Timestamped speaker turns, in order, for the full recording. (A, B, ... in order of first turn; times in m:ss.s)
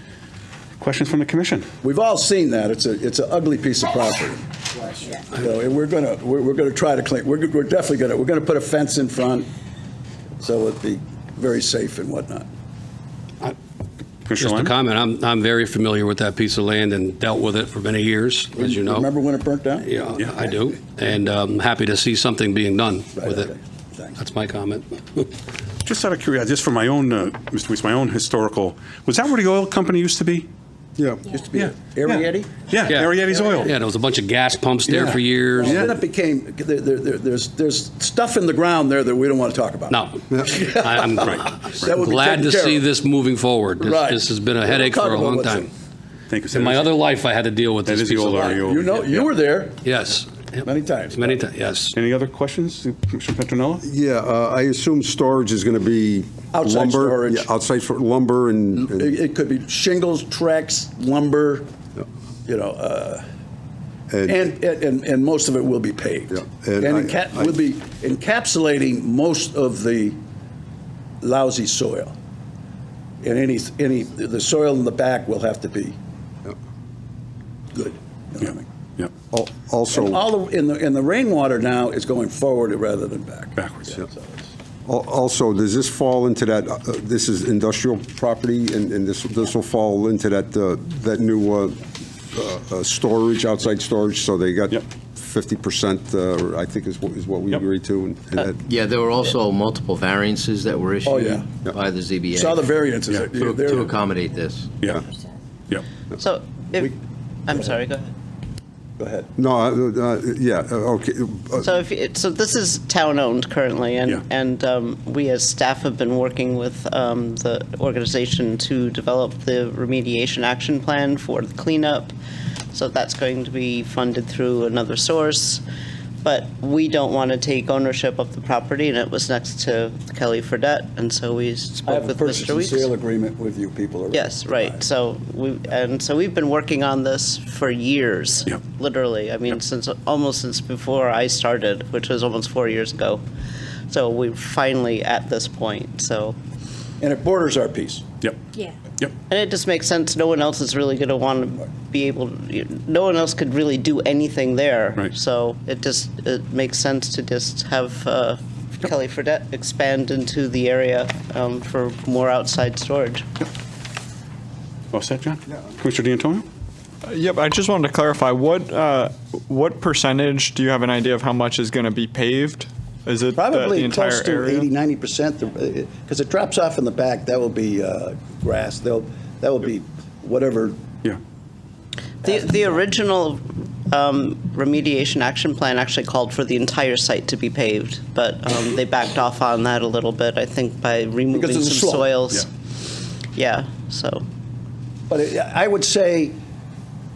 0:00.8-0:01.7 A
0:01.8-0:09.5 B
0:10.4-0:12.5 B
0:14.3-0:14.7 A
0:14.4-0:19.1 C
0:18.6-0:20.5 B
0:19.8-0:23.5 C
0:23.2-0:24.2 B
0:24.2-0:25.3 C
0:25.8-0:30.5 A
0:31.2-0:32.5 B
0:31.5-0:33.8 A
0:32.8-0:35.9 C
0:34.9-0:42.9 B
0:35.6-0:35.9 D
0:39.9-0:45.7 C
0:41.2-0:41.5 A
0:43.8-0:45.7 B
0:46.3-0:46.9 A
0:46.5-0:49.2 C
0:47.8-0:49.0 A
0:48.4-0:49.8 B
0:49.8-0:51.9 C
0:50.6-0:51.4 B
0:51.9-0:53.8 A
0:53.8-0:59.1 D
0:56.5-0:57.5 B
0:58.8-1:01.7 B
1:02.4-1:03.2 B
1:04.1-1:04.5 D
1:04.2-1:10.2 B
1:06.3-1:07.5 D
1:11.2-1:12.1 B
1:13.2-1:16.0 B
1:17.7-1:18.6 B
1:19.3-1:20.2 D
1:19.9-1:24.5 B
1:23.6-1:23.9 A
1:24.8-1:38.6 D
1:38.7-1:42.6 E
1:41.0-1:41.5 B
1:42.3-1:43.9 B
1:43.1-1:43.4 A
1:43.4-1:44.7 E
1:46.2-1:46.9 F
1:47.5-1:48.1 F
1:47.5-1:47.8 B
1:49.0-1:49.3 B
1:49.4-1:51.7 D
1:51.6-2:02.1 F
2:02.7-2:05.6 F
2:06.2-2:12.9 F
2:11.8-2:14.8 B
2:14.1-2:23.2 F
2:23.9-2:26.4 F
2:27.0-2:28.0 B
2:29.3-2:43.2 F
2:44.9-2:46.4 A
2:47.0-2:54.7 G
2:53.4-3:00.8 B
3:02.2-3:14.2 F
3:02.2-3:02.8 B
3:11.3-3:12.1 B
3:15.1-3:16.4 B